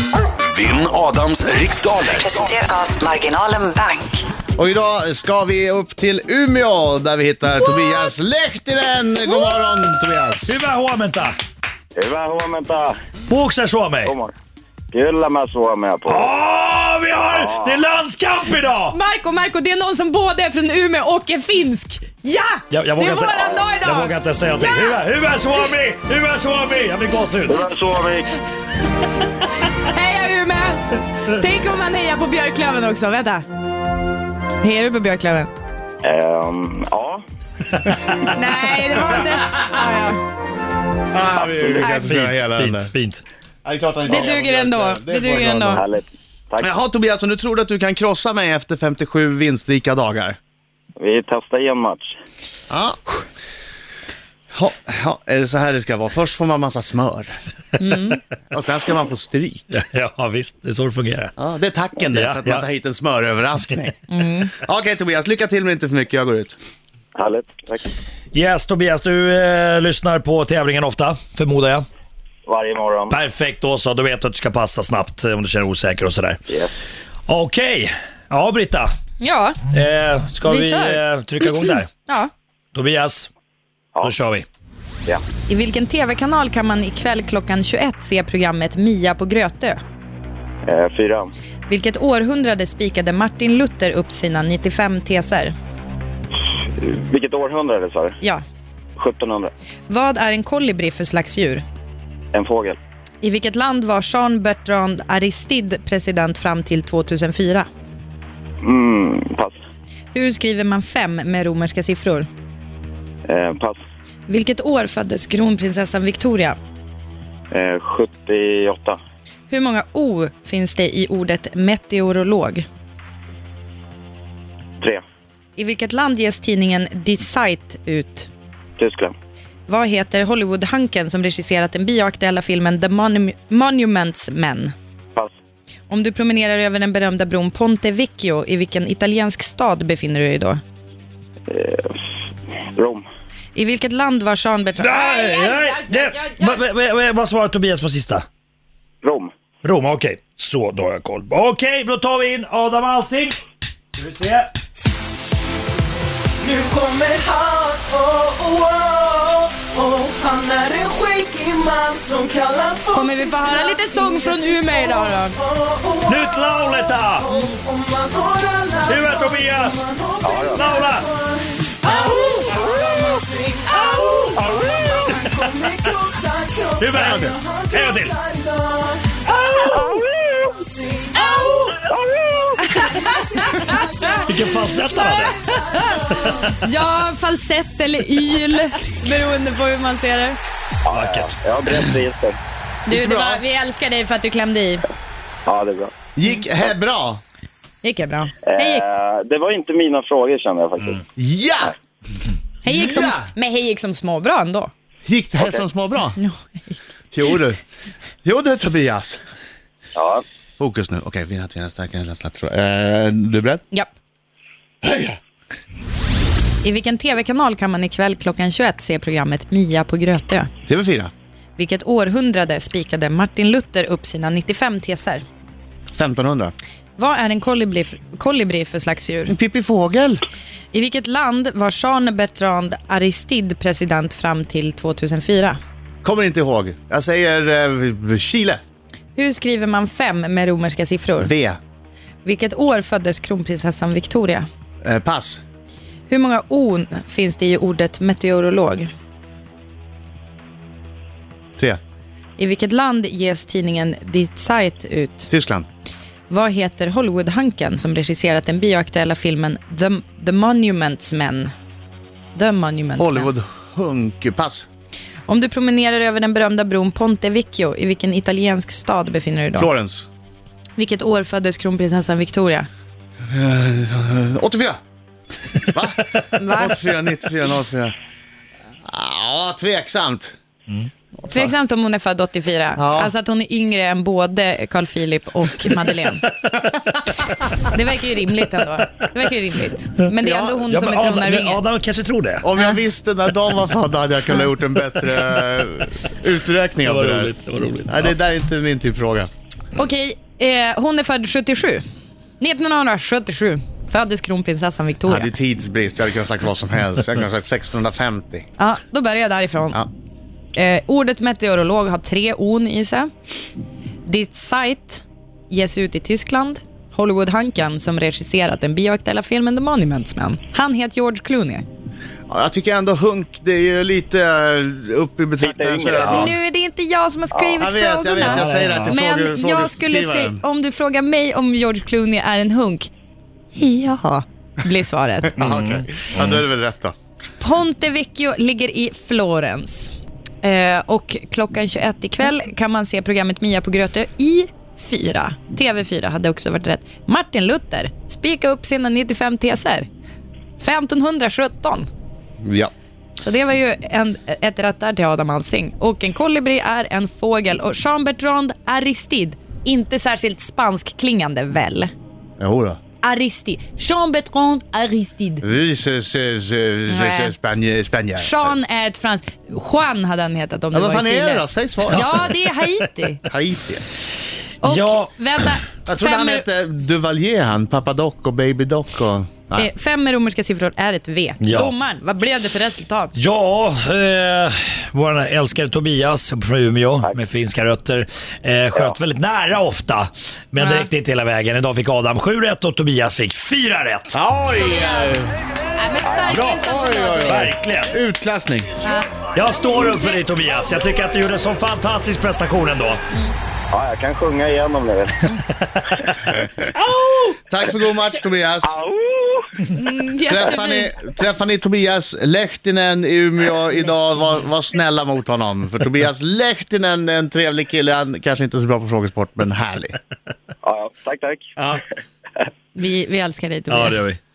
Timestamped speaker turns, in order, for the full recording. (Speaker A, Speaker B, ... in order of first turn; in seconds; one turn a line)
Speaker A: 0.5-2.5
Speaker B: 2.2-4.3
Speaker C: 4.6-10.6
Speaker D: 10.5-11.3
Speaker E: 12.0-12.9
Speaker D: 13.3-14.2
Speaker E: 14.0-14.3
Speaker E: 14.9-16.3
Speaker D: 16.1-19.0
Speaker E: 17.3-17.8
Speaker F: 18.9-24.9
Speaker D: 22.7-27.7
Speaker E: 27.5-28.3
Speaker F: 29.7-33.5
Speaker F: 34.6-35.5
Speaker E: 36.0-37.2
Speaker F: 38.2-40.2
Speaker C: 41.1-42.9
Speaker F: 41.6-42.1
Speaker D: 42.0-43.2
Speaker C: 43.6-45.9
Speaker F: 44.1-45.8
Speaker E: 45.7-46.7
Speaker C: 46.6-50.4
Speaker E: 51.0-52.1
Speaker C: 52.7-53.1
Speaker C: 54.5-57.3
Speaker F: 57.8-58.2
Speaker C: 58.5-59.7
Speaker D: 59.7-61.3
Speaker C: 61.4-64.0
Speaker D: 62.1-62.6
Speaker F: 64.1-64.5
Speaker C: 64.5-66.6
Speaker E: 67.2-67.9
Speaker D: 68.3-71.9
Speaker E: 72.5-73.2
Speaker D: 73.1-76.4
Speaker E: 76.5-76.8
Speaker D: 77.3-78.9
Speaker F: 79.2-79.6
Speaker D: 79.7-81.9
Speaker F: 80.4-82.3
Speaker D: 82.7-83.3
Speaker D: 84.0-84.5
Speaker F: 85.5-89.8
Speaker E: 90.7-91.3
Speaker F: 91.7-95.5
Speaker E: 96.8-98.2
Speaker E: 99.0-99.5
Speaker F: 99.9-101.6
Speaker E: 102.3-102.8
Speaker F: 103.2-107.7
Speaker E: 108.6-109.5
Speaker F: 110.1-112.3
Speaker E: 113.3-113.8
Speaker F: 114.3-116.6
Speaker E: 117.5-119.0
Speaker F: 119.5-122.7
Speaker F: 125.6-128.3
Speaker E: 128.8-129.1
Speaker F: 129.7-134.7
Speaker F: 135.9-140.6
Speaker E: 141.5-142.0
Speaker E: 142.8-143.1
Speaker F: 143.6-146.6
Speaker D: 144.8-148.2
Speaker E: 149.0-149.3
Speaker D: 149.6-153.4
Speaker D: 153.9-154.5
Speaker G: 156.4-164.8
Speaker F: 162.9-165.4
Speaker G: 165.4-166.2
Speaker D: 166.1-167.3
Speaker G: 167.2-179.2
Speaker D: 168.9-169.8
Speaker E: 170.2-170.6
Speaker D: 170.6-171.1
Speaker F: 172.0-172.3
Speaker E: 174.6-174.9
Speaker D: 176.8-178.2
Speaker C: 177.0-177.4
Speaker E: 179.5-180.6
Speaker G: 180.7-181.8
Speaker F: 181.4-181.7
Speaker E: 181.7-182.6
Speaker F: 182.6-184.1
Speaker G: 183.0-186.5
Speaker D: 184.2-185.4
Speaker F: 185.5-186.0
Speaker D: 186.1-186.6
Speaker F: 186.5-190.4
Speaker E: 190.9-192.4
Speaker D: 190.9-191.8
Speaker F: 192.9-194.8
Speaker C: 192.9-193.4
Speaker E: 195.5-195.9
Speaker C: 196.2-197.2
Speaker F: 197.8-198.8
Speaker E: 198.5-201.0
Speaker C: 201.2-201.7
Speaker F: 202.6-204.7
Speaker C: 202.7-203.3
Speaker C: 205.1-206.2
Speaker E: 205.4-205.6
Speaker F: 206.2-206.8
Speaker C: 207.1-207.6
Speaker C: 208.2-209.2
Speaker E: 210.0-210.2
Speaker C: 210.6-213.6
Speaker C: 214.8-215.2
Speaker F: 216.6-220.5
Speaker C: 220.7-221.1
Speaker F: 221.6-225.2
Speaker C: 225.9-226.5
Speaker F: 227.0-229.3
Speaker C: 229.3-230.2
Speaker F: 230.7-235.6
Speaker C: 236.0-238.6
Speaker F: 239.2-241.3
Speaker C: 241.2-241.6
Speaker F: 242.2-244.5
Speaker C: 244.8-245.4
Speaker F: 246.1-248.9
Speaker F: 252.4-255.3
Speaker C: 255.3-255.7
Speaker F: 256.3-261.5
Speaker F: 262.3-263.3
Speaker C: 263.0-264.7
Speaker F: 265.3-269.7
Speaker C: 269.6-270.1
Speaker F: 270.8-272.7
Speaker C: 273.3-274.8
Speaker C: 275.7-277.9
Speaker F: 276.3-276.8
Speaker C: 278.9-280.4
Speaker F: 281.3-286.3
Speaker C: 282.8-283.1
Speaker F: 287.7-291.6
Speaker C: 290.2-290.7
Speaker D: 290.7-292.5
Speaker C: 292.4-299.3
Speaker D: 296.8-298.1
Speaker F: 299.8-301.8
Speaker F: 302.4-305.3
Speaker C: 305.1-308.5
Speaker F: 308.6-309.8
Speaker F: 310.5-313.1
Speaker F: 314.1-321.6
Speaker C: 322.3-326.4
Speaker E: 325.4-326.3
Speaker F: 326.1-332.9
Speaker E: 327.3-327.7
Speaker C: 327.6-330.4
Speaker D: 328.2-329.0
Speaker F: 333.6-335.4
Speaker C: 335.4-336.9
Speaker D: 335.4-336.4
Speaker F: 337.4-339.9
Speaker F: 340.4-349.9
Speaker F: 350.6-351.9
Speaker C: 352.4-352.7
Speaker F: 353.2-361.9
Speaker C: 362.4-362.8
Speaker F: 363.0-365.4
Speaker C: 365.4-368.6
Speaker F: 366.9-367.4
Speaker F: 368.2-373.2
Speaker C: 370.7-372.3
Speaker D: 372.0-372.5
Speaker C: 373.3-373.9
Speaker F: 374.6-376.5
Speaker D: 374.6-375.1
Speaker C: 375.9-379.7
Speaker F: 379.6-383.1
Speaker D: 381.4-381.7
Speaker D: 383.2-394.1
Speaker F: 390.6-390.9
Speaker C: 394.1-395.3
Speaker F: 394.6-395.2
Speaker F: 395.8-397.5
Speaker E: 396.0-396.4
Speaker D: 396.3-397.9
Speaker C: 396.6-398.7
Speaker F: 398.8-399.1
Speaker D: 399.3-403.0
Speaker F: 399.7-400.2
Speaker E: 403.7-405.3
Speaker D: 405.3-405.8
Speaker D: 406.8-407.4
Speaker C: 407.5-408.8
Speaker E: 408.6-409.6
Speaker F: 409.7-410.9
Speaker C: 410.3-420.0
Speaker E: 420.6-421.5
Speaker C: 421.6-421.8
Speaker F: 422.8-424.0
Speaker D: 423.7-424.2